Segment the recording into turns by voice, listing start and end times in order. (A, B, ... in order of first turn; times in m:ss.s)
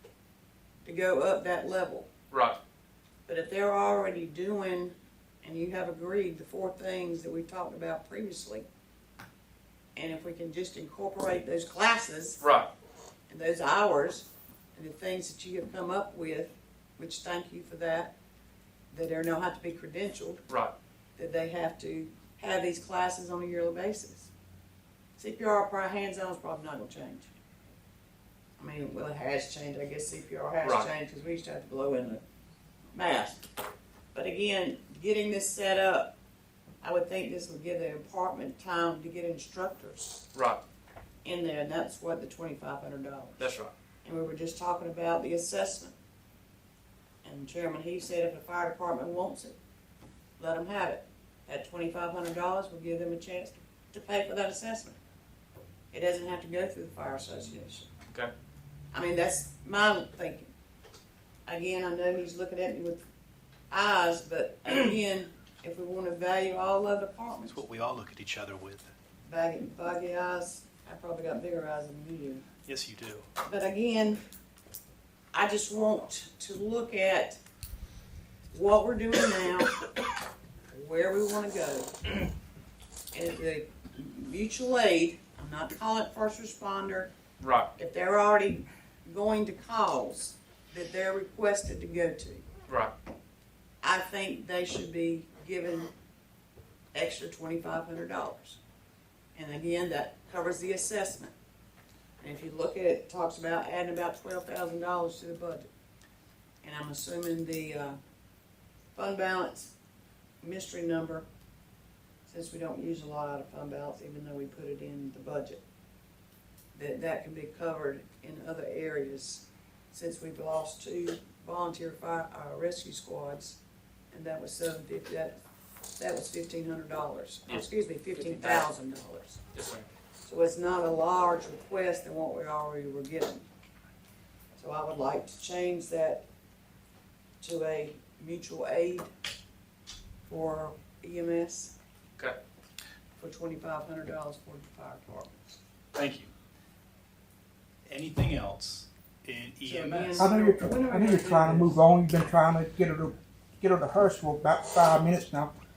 0:00.8-0:02.1 A
0:02.3-0:02.6 B
0:03.3-0:08.7 A
0:10.0-0:12.4 A
0:12.4-0:12.7 B
0:13.3-0:18.1 A
0:18.9-0:20.4 A
0:20.5-0:20.7 B
0:21.2-0:24.3 A
0:25.2-0:27.3 A
0:28.6-0:32.2 A
0:30.6-0:30.9 B
0:32.9-0:33.4 A
0:34.1-0:36.1 A
0:36.8-0:40.2 A
0:40.3-0:40.6 B
0:41.2-0:43.4 A
0:43.4-0:43.7 B
0:44.0-0:45.9 A
0:47.2-0:49.6 A
0:50.4-0:55.0 A
0:55.9-0:57.9 A
0:58.9-1:00.5 A
1:01.5-1:03.0 A
1:03.7-1:07.6 A
1:07.5-1:08.9 C
1:09.3-1:12.4 A
1:12.6-1:13.3 C
1:13.4-1:14.2 A
1:15.3-1:17.4 A
1:18.5-1:19.8 A
1:20.7-1:22.1 A
1:23.1-1:27.1 A
1:27.4-1:27.7 B
1:27.8-1:32.4 A
1:32.7-1:32.9 B
1:33.8-1:35.9 A
1:36.9-1:38.6 A
1:39.4-1:41.3 A
1:42.2-1:45.7 A
1:46.6-1:48.0 A
1:49.0-1:49.7 A
1:50.4-1:51.3 A
1:52.3-1:55.6 A
1:56.7-2:03.6 A
2:04.1-2:05.4 A
2:06.0-2:09.4 A
2:07.5-2:08.7 B
2:09.5-2:09.9 B
2:10.2-2:13.4 A
2:14.6-2:16.2 A
2:17.4-2:19.1 A
2:20.3-2:21.7 A
2:23.2-2:25.6 A
2:25.9-2:26.3 C
2:27.9-2:30.3 C
2:29.6-2:31.8 A
2:30.2-2:35.5 D